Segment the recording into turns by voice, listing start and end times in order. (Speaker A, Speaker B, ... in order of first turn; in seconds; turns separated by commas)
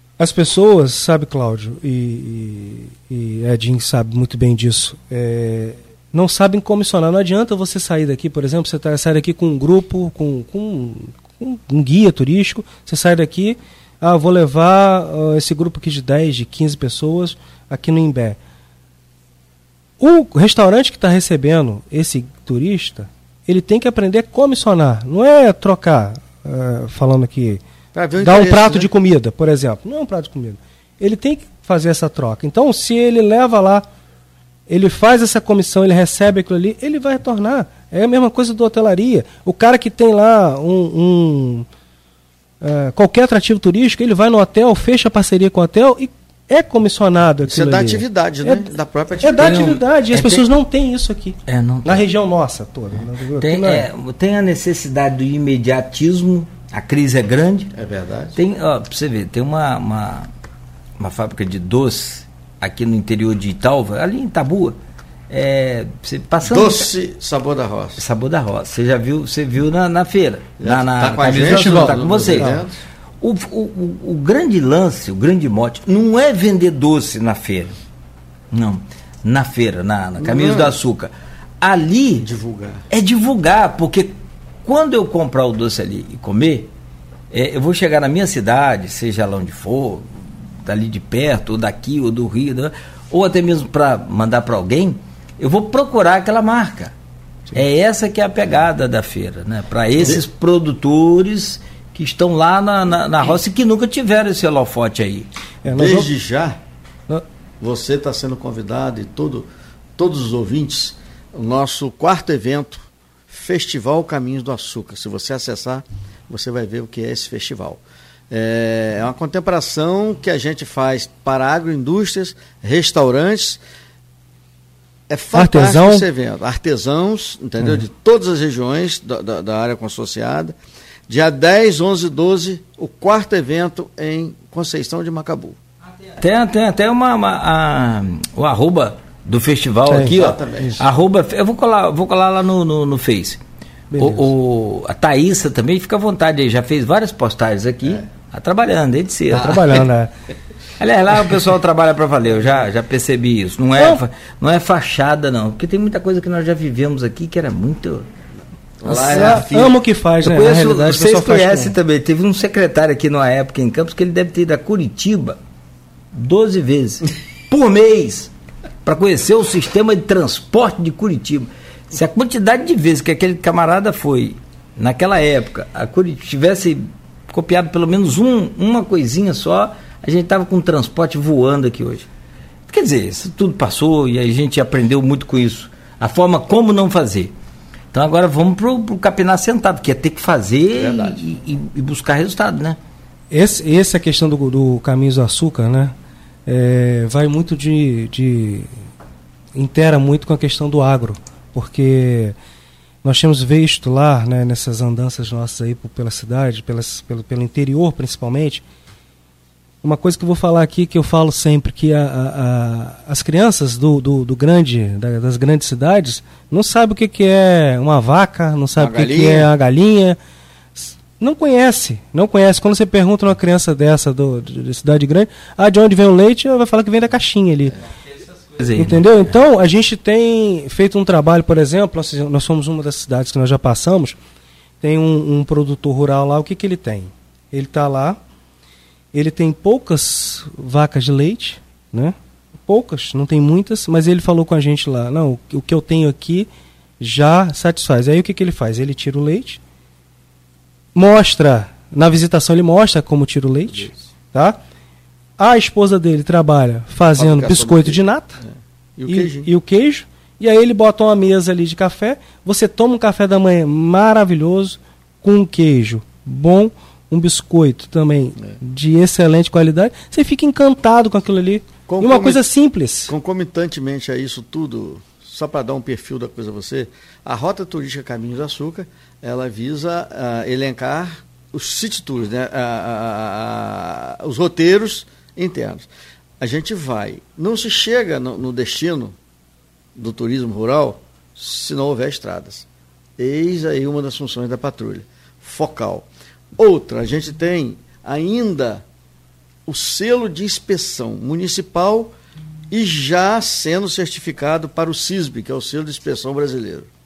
Speaker A: 0.2-18.4, Speaker A: 20.0-27.6, Speaker B: 27.9-28.9, Speaker A: 28.2-33.9, Speaker A: 34.7-41.7, Speaker A: 42.6-48.7, Speaker B: 47.5-49.6, Speaker A: 49.2-53.9, Speaker C: 49.4-50.5, Speaker C: 51.5-52.1, Speaker C: 53.4-57.7, Speaker B: 57.8-58.4, Speaker C: 58.4-60.3, Speaker C: 61.0-64.8, Speaker C: 65.3-66.9, Speaker B: 66.4-68.0, Speaker C: 68.0-72.6, Speaker B: 70.6-72.8, Speaker A: 71.4-72.6, Speaker C: 73.2-77.8, Speaker C: 78.5-82.3, Speaker B: 80.2-80.8, Speaker B: 82.2-82.8, Speaker C: 82.9-84.1, Speaker C: 84.7-86.7, Speaker C: 87.3-90.1, Speaker C: 90.6-96.9, Speaker C: 97.5-105.3, Speaker A: 105.6-106.1, Speaker B: 105.7-106.6, Speaker B: 107.6-123.6, Speaker B: 125.1-130.6, Speaker A: 125.3-126.1, Speaker B: 131.1-135.6, Speaker C: 136.2-143.4, Speaker A: 139.9-140.2, Speaker B: 140.0-140.8, Speaker A: 143.9-144.3, Speaker C: 144.0-149.8, Speaker B: 149.3-149.8, Speaker A: 149.4-150.1, Speaker C: 150.8-158.1, Speaker B: 158.8-159.8, Speaker C: 158.8-159.5, Speaker A: 158.9-161.8, Speaker C: 160.2-165.4, Speaker C: 166.1-168.3, Speaker C: 168.8-182.1, Speaker C: 182.7-187.3, Speaker C: 187.9-192.8, Speaker B: 190.8-191.2, Speaker A: 193.3-195.9, Speaker A: 196.5-198.7, Speaker A: 199.6-202.3, Speaker A: 203.0-208.6, Speaker A: 209.8-220.2, Speaker B: 218.8-219.5, Speaker A: 220.8-227.8, Speaker C: 228.6-229.1, Speaker A: 228.8-234.2, Speaker A: 234.8-238.2, Speaker A: 239.1-246.5, Speaker A: 247.0-249.6, Speaker A: 250.9-254.6, Speaker A: 255.4-258.4, Speaker B: 257.2-259.5, Speaker A: 259.1-273.1, Speaker B: 271.9-272.5, Speaker B: 273.1-285.9, Speaker B: 286.4-289.2, Speaker B: 289.9-292.7, Speaker B: 293.2-298.8, Speaker B: 299.7-302.1, Speaker B: 302.7-306.9